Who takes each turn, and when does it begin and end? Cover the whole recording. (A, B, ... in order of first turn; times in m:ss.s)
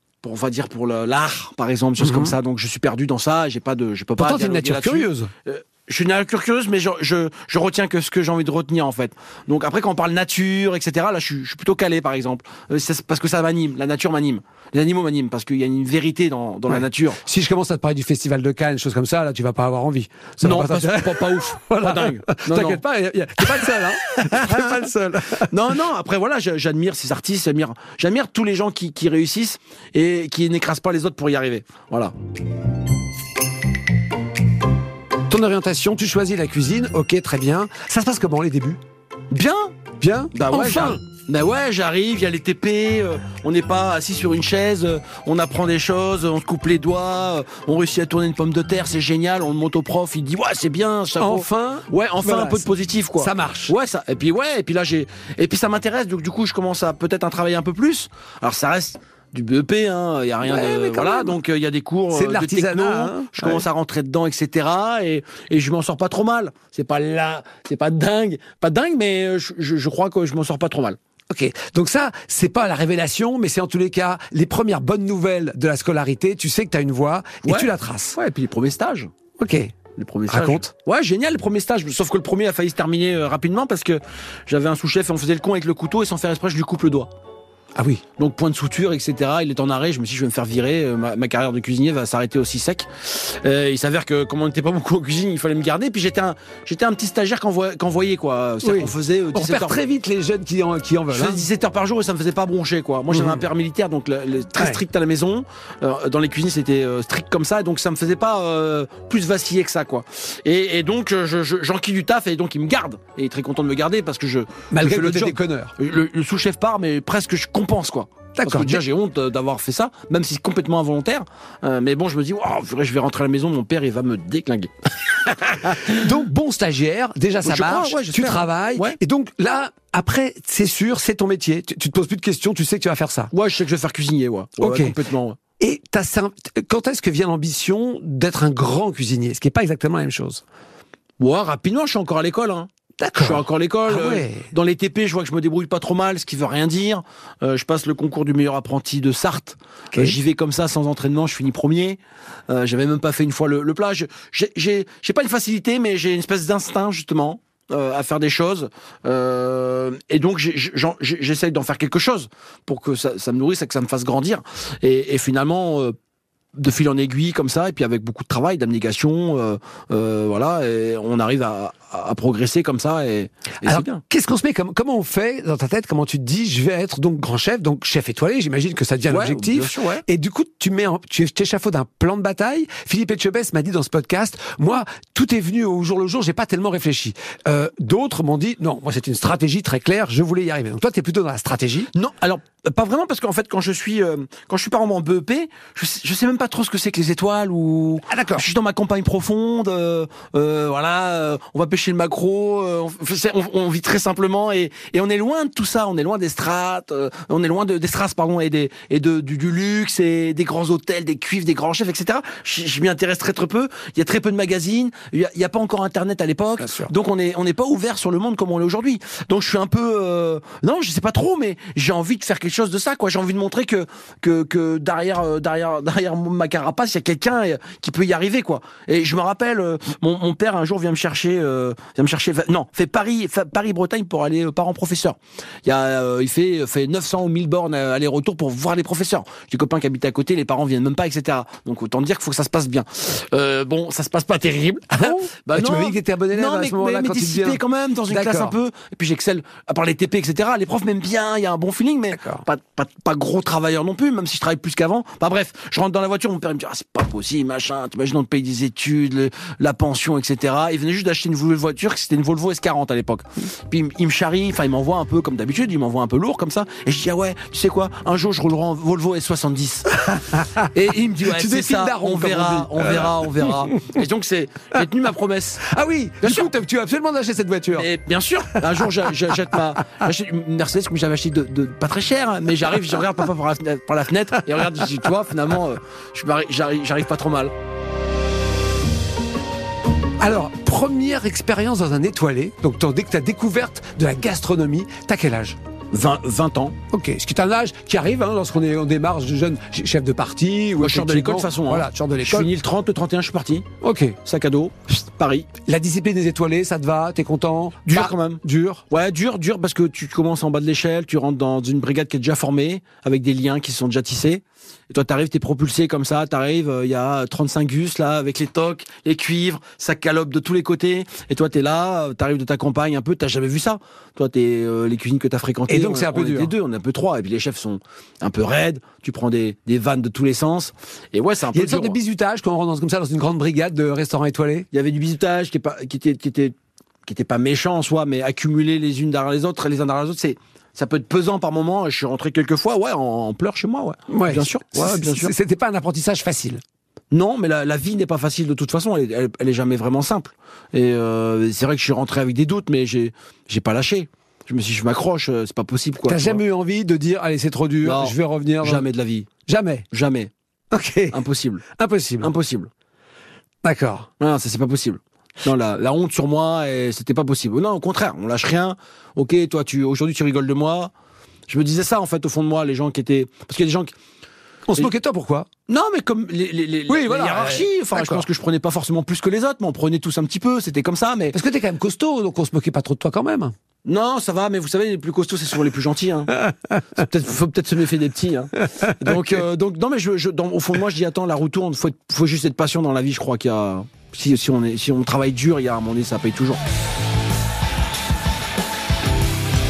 0:00.2-0:17.2 A
0:02.0-0:02.3 B
0:04.2-0:05.3 B
0:16.7-0:25.5 B
0:20.4-0:22.8 A
0:23.4-0:24.7 A
0:25.5-0:32.1 A
0:35.3-0:38.8 B
0:39.3-0:39.7 A
0:40.0-0:41.0 B
0:40.3-1:11.0 A
0:51.2-0:53.7 B
1:00.4-1:01.4 B
1:02.1-1:03.7 B
1:11.3-1:18.2 B
1:17.4-1:19.1 A
1:19.4-1:19.7 B
1:20.0-1:27.1 A
1:20.3-1:20.7 B
1:27.8-1:28.0 B
1:28.2-1:39.8 A
1:38.6-1:41.4 B
1:41.1-2:06.1 A
1:43.1-1:43.4 B
1:54.7-1:55.7 B
1:58.4-1:58.8 B
2:06.0-2:13.3 B
2:07.4-2:09.0 A
2:13.3-2:15.4 A
2:14.6-2:15.0 B
2:15.6-2:20.4 B
2:21.2-2:45.9 A
2:23.0-2:24.5 B
2:46.6-2:54.0 A
2:53.6-3:11.9 B
2:59.1-3:00.0 A
3:11.9-4:30.0 A
3:18.1-3:18.4 B
3:36.6-3:36.9 B
4:04.9-4:08.6 B
4:12.1-4:12.4 B
4:30.3-4:30.6 B
4:30.7-4:35.6 A
4:31.2-4:34.0 B
4:35.6-4:37.9 B
4:36.2-4:36.5 A
4:37.7-4:47.5 A
4:38.5-4:38.9 B
4:50.2-4:55.6 B
4:55.9-4:56.8 A
4:56.9-5:02.5 B
5:00.8-5:03.7 A
5:03.8-5:04.2 B
5:04.2-5:05.5 A
5:05.7-5:08.8 B
5:07.9-5:32.0 A
5:25.7-5:26.5 B
5:31.5-5:34.7 B
5:34.7-5:36.5 A
5:37.0-5:45.3 A
5:44.1-5:46.6 B
5:47.1-5:56.4 A
5:56.1-5:58.8 B
5:57.8-5:59.3 A
5:59.5-5:59.8 B
5:59.9-6:00.3 A
6:00.7-6:01.2 B
6:01.1-6:01.6 A
6:01.8-6:02.3 B
6:02.2-6:02.7 A
6:03.6-6:04.1 B
6:04.2-6:10.9 A
6:11.5-6:13.9 A
6:14.7-6:15.5 B
6:15.7-6:21.4 A
6:16.9-6:18.2 B
6:21.3-6:23.5 B
6:23.8-6:26.4 A
6:26.9-6:36.6 A